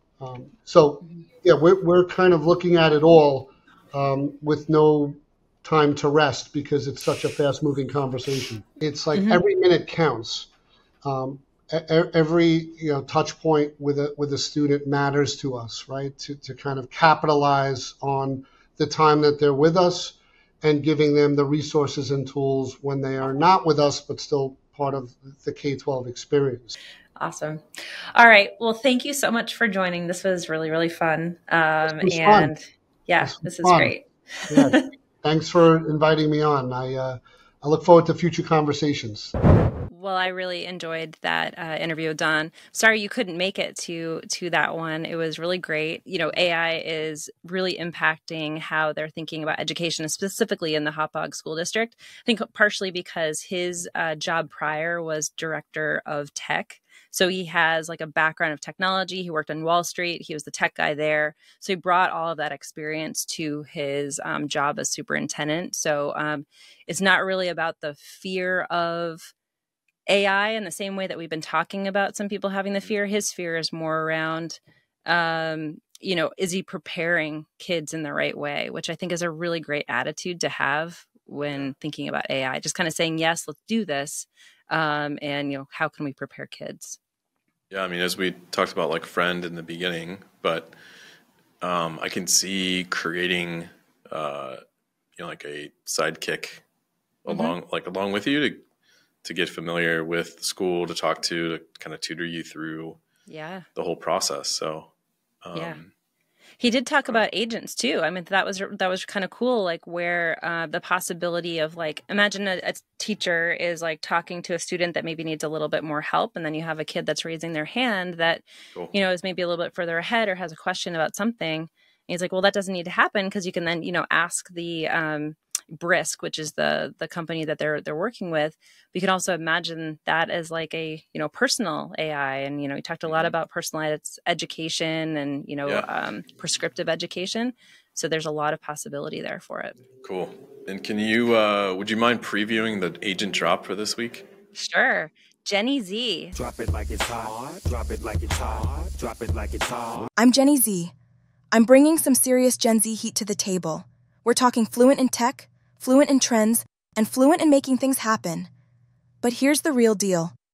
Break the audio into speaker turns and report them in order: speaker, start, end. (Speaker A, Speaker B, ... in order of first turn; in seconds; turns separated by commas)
Speaker A: 0.2-10.5, Speaker B: 9.2-9.4, Speaker A: 11.0-26.7, Speaker B: 27.2-34.8, Speaker A: 31.9-32.5, Speaker A: 33.2-33.9, Speaker A: 34.5-39.3, Speaker B: 39.9-69.3, Speaker B: 70.1-87.0, Speaker C: 87.7-90.7, Speaker C: 91.6-94.6, Speaker C: 95.2-96.6, Speaker C: 97.2-98.6, Speaker B: 97.3-97.6, Speaker C: 99.2-103.0, Speaker B: 103.3-103.7, Speaker C: 103.8-104.9, Speaker C: 105.4-105.9, Speaker B: 105.5-105.8, Speaker B: 106.6-139.8, Speaker C: 133.1-133.3, Speaker C: 140.0-144.3, Speaker B: 144.6-146.3, Speaker D: 146.3-150.1, Speaker E: 150.2-150.9, Speaker E: 151.5-158.5, Speaker E: 159.2-160.3